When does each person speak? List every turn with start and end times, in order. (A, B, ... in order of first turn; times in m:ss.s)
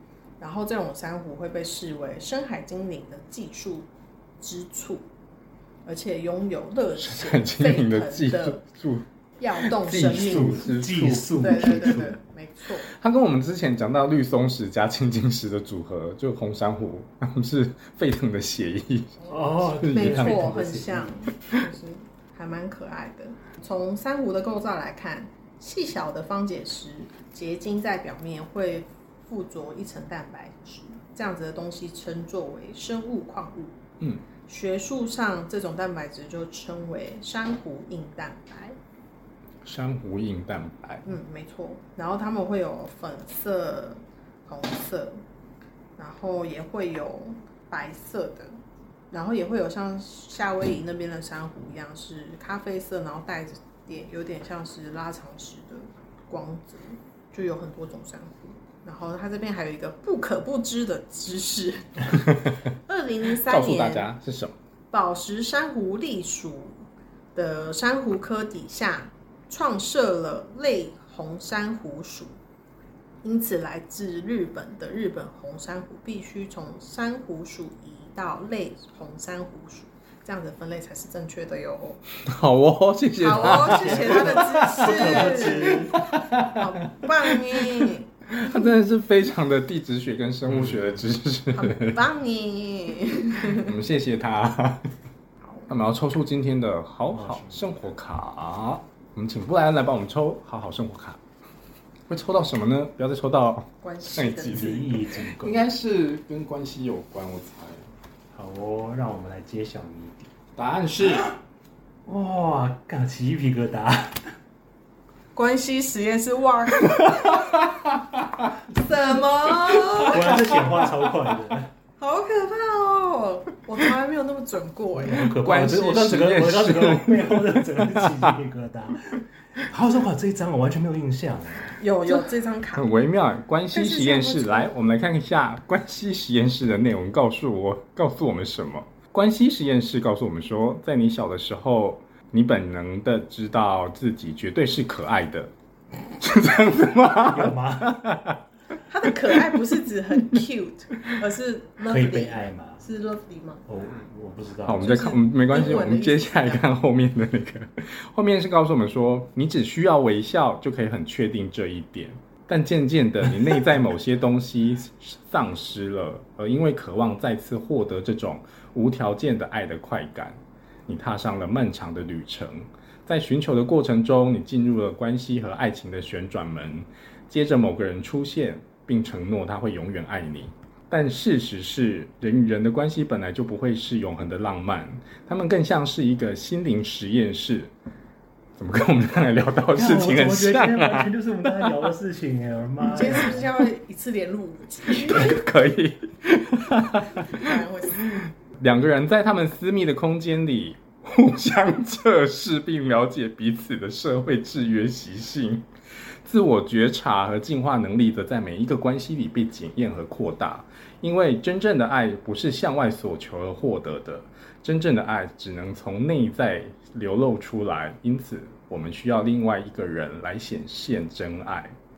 0:00.4-0:03.9 A
0:04.4-0:05.0 A
0:05.8-0:08.6 A
0:07.0-0:09.0 B
0:09.4-0:10.8 A
0:09.6-0:11.5 B
0:10.0-0:12.2 C
0:11.3-0:12.9 A
0:12.9-0:19.2 B
0:19.2-0:33.8 A
0:19.3-0:21.1 C
0:19.8-0:20.4 B
0:34.5-0:38.8 A
0:39.6-0:41.0 B
0:41.0-0:45.2 A
0:46.0-0:48.6 A
0:49.1-1:02.1 A
1:02.3-1:02.6 B
1:02.8-1:04.1 A
1:03.4-1:04.6 B
1:04.9-1:06.8 A
1:07.3-1:12.3 A
1:13.2-1:22.0 A
1:22.2-1:32.0 B
1:23.2-1:28.1 A
1:23.4-1:26.0 C
1:30.5-1:30.9 C
1:31.5-1:33.7 A
1:33.5-1:34.9 B
1:35.4-1:35.7 A
1:35.7-1:41.2 B
1:37.1-1:37.7 C
1:42.1-1:47.8 B
1:43.8-1:45.0 A
1:44.5-1:45.7 C
1:48.3-1:50.3 C
1:50.6-1:51.3 B
1:52.0-1:54.3 C
1:55.3-1:57.7 A
1:57.0-1:58.5 B
1:58.7-2:00.6 A
1:59.9-2:01.7 C
2:02.0-2:05.3 A
2:05.0-2:11.8 C
2:05.3-2:08.3 B
2:11.8-2:12.9 A
2:12.1-2:25.5 B
2:13.7-2:14.7 A
2:26.2-2:28.4 B
2:27.2-2:28.0 C
2:28.9-2:33.6 A
2:29.3-2:29.5 B
2:31.9-2:32.8 C
2:33.7-2:35.0 C
2:34.6-3:07.7 B
2:34.8-2:36.6 A
3:08.6-3:11.9 B
3:09.7-3:13.5 C
3:12.8-3:15.4 A
3:15.0-3:17.5 B
3:17.1-3:18.1 A
3:18.1-3:25.6 B
3:26.2-3:41.7 B